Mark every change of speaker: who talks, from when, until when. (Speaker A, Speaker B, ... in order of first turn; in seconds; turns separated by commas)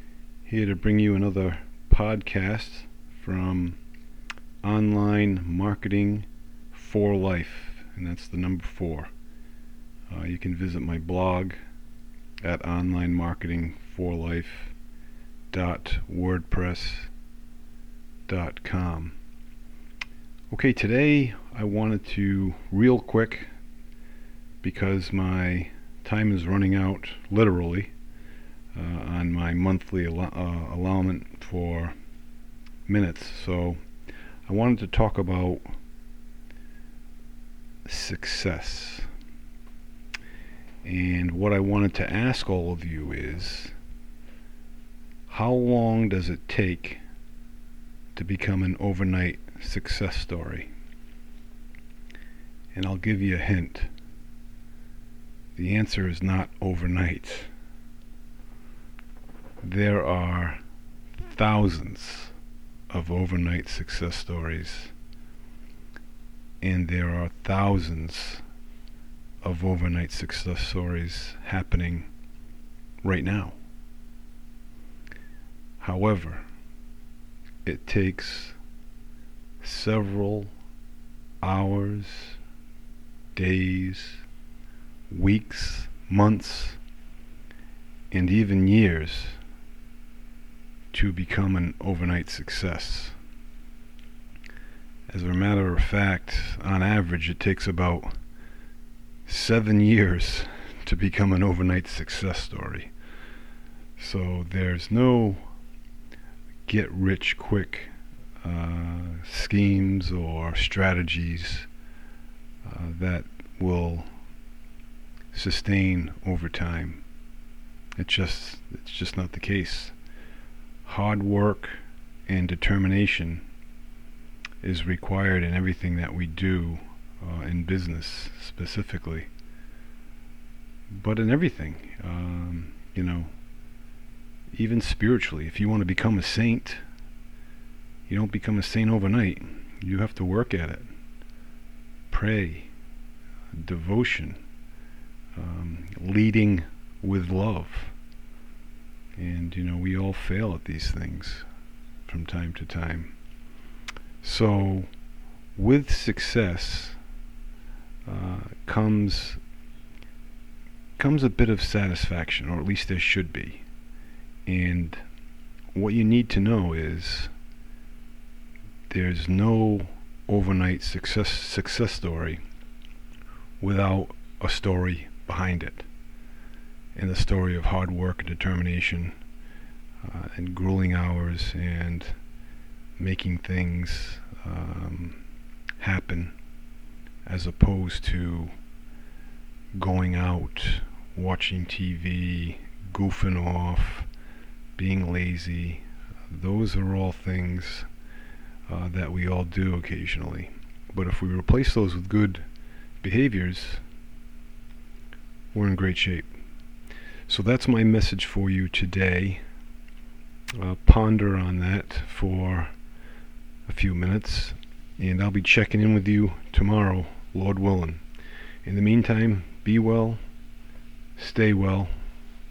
Speaker A: 0.4-3.8, Speaker A: 4.6-9.1, Speaker A: 10.1-11.6, Speaker A: 12.4-14.7, Speaker A: 15.5-17.1, Speaker A: 18.3-19.1, Speaker A: 20.5-23.5, Speaker A: 24.6-27.9, Speaker A: 28.7-31.9, Speaker A: 32.9-33.8, Speaker A: 34.5-35.6, Speaker A: 37.8-39.1, Speaker A: 40.8-43.7, Speaker A: 45.3-47.0, Speaker A: 48.1-50.7, Speaker A: 52.7-53.9, Speaker A: 55.5-57.5, Speaker A: 59.6-60.6, Speaker A: 61.2-62.3, Speaker A: 62.9-64.9, Speaker A: 66.6-68.4, Speaker A: 69.4-72.1, Speaker A: 73.0-73.5, Speaker A: 75.8-76.4, Speaker A: 77.6-78.6, Speaker A: 79.6-80.5, Speaker A: 81.4-82.4, Speaker A: 83.3-84.2, Speaker A: 85.1-86.8, Speaker A: 88.1-89.4, Speaker A: 90.9-93.2, Speaker A: 95.1-98.2, Speaker A: 99.2-102.9, Speaker A: 104.0-105.5, Speaker A: 106.7-111.7, Speaker A: 112.6-114.1, Speaker A: 115.3-117.0, Speaker A: 118.0-119.9, Speaker A: 120.8-123.4, Speaker A: 124.6-129.3, Speaker A: 130.9-133.3, Speaker A: 134.5-136.8, Speaker A: 138.1-140.9, Speaker A: 142.1-142.7, Speaker A: 143.5-144.4, Speaker A: 145.3-147.9, Speaker A: 149.2-151.4, Speaker A: 152.1-153.1, Speaker A: 154.2-154.9, Speaker A: 155.5-157.0, Speaker A: 158.1-159.4, Speaker A: 161.0-163.6, Speaker A: 164.4-165.0, Speaker A: 165.7-167.3, Speaker A: 168.9-172.4, Speaker A: 173.6-175.9, Speaker A: 176.9-179.2, Speaker A: 180.0-182.2, Speaker A: 183.0-185.2, Speaker A: 185.8-186.3, Speaker A: 187.2-188.5, Speaker A: 189.7-194.1, Speaker A: 194.8-197.9, Speaker A: 198.7-202.4, Speaker A: 203.0-203.8, Speaker A: 205.5-206.3, Speaker A: 207.3-209.4, Speaker A: 210.6-212.7, Speaker A: 213.7-218.0, Speaker A: 218.6-220.2, Speaker A: 221.2-221.9